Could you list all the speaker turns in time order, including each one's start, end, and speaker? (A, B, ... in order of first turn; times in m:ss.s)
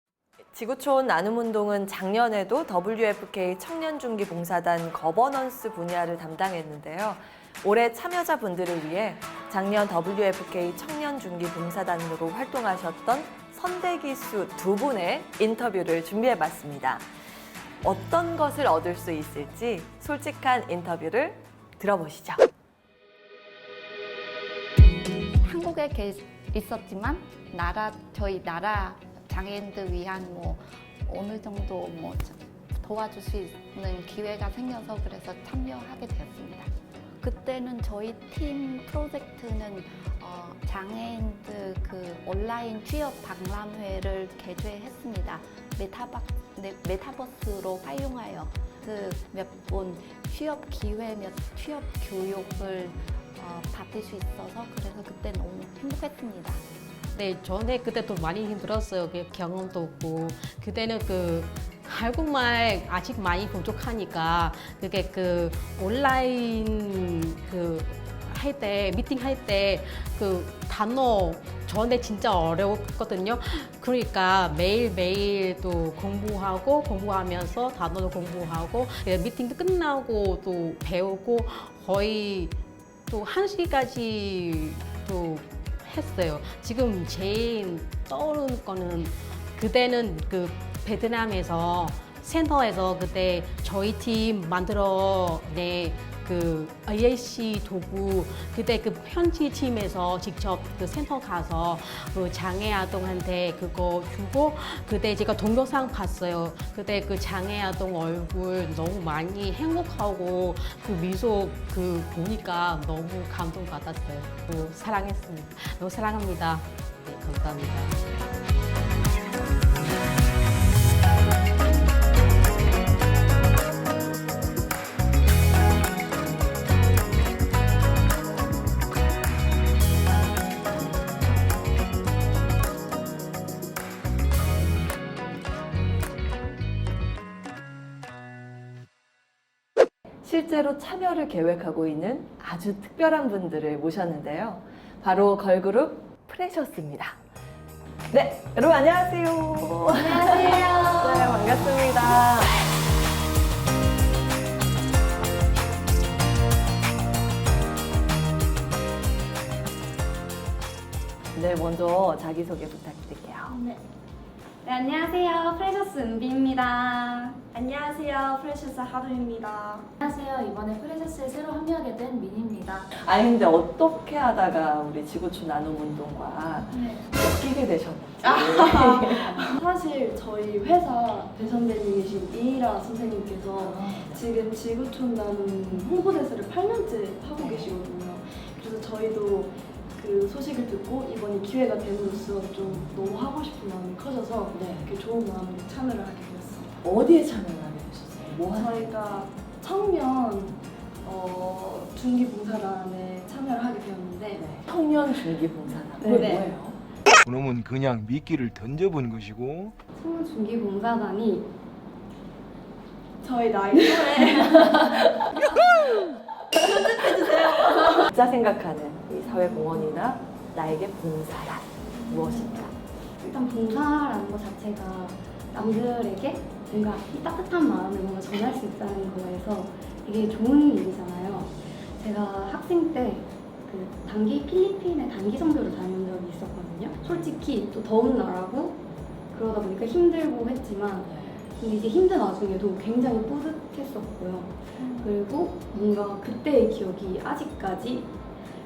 0:00.5-0:17.0 A
0:17.8-0:22.5 A
0:25.4-0:36.7 B
0:37.2-0:56.6 B
0:57.1-1:22.6 C
1:23.1-1:58.0 C
2:20.2-2:27.2 A
2:28.1-2:32.5 A
2:29.9-2:31.4 D
2:41.3-2:43.6 A
2:43.5-2:43.8 E
2:44.6-2:47.4 D
2:47.5-2:49.9 E
2:50.0-2:52.9 F
2:52.9-2:59.6 A
2:58.2-3:16.8 E
3:03.6-3:04.3 A
3:07.4-3:07.7 A
3:14.5-3:14.9 A
3:16.8-3:19.2 A
3:18.4-3:24.4 E
3:24.3-3:26.8 A
3:26.0-3:26.5 D
3:26.1-3:26.4 E
3:27.2-3:29.7 G
3:30.0-3:31.5 D
3:33.2-3:35.2 E
3:36.6-3:38.0 E
3:38.0-3:42.8 A
3:43.2-4:08.1 D
3:57.0-3:57.3 A
4:01.1-4:01.4 A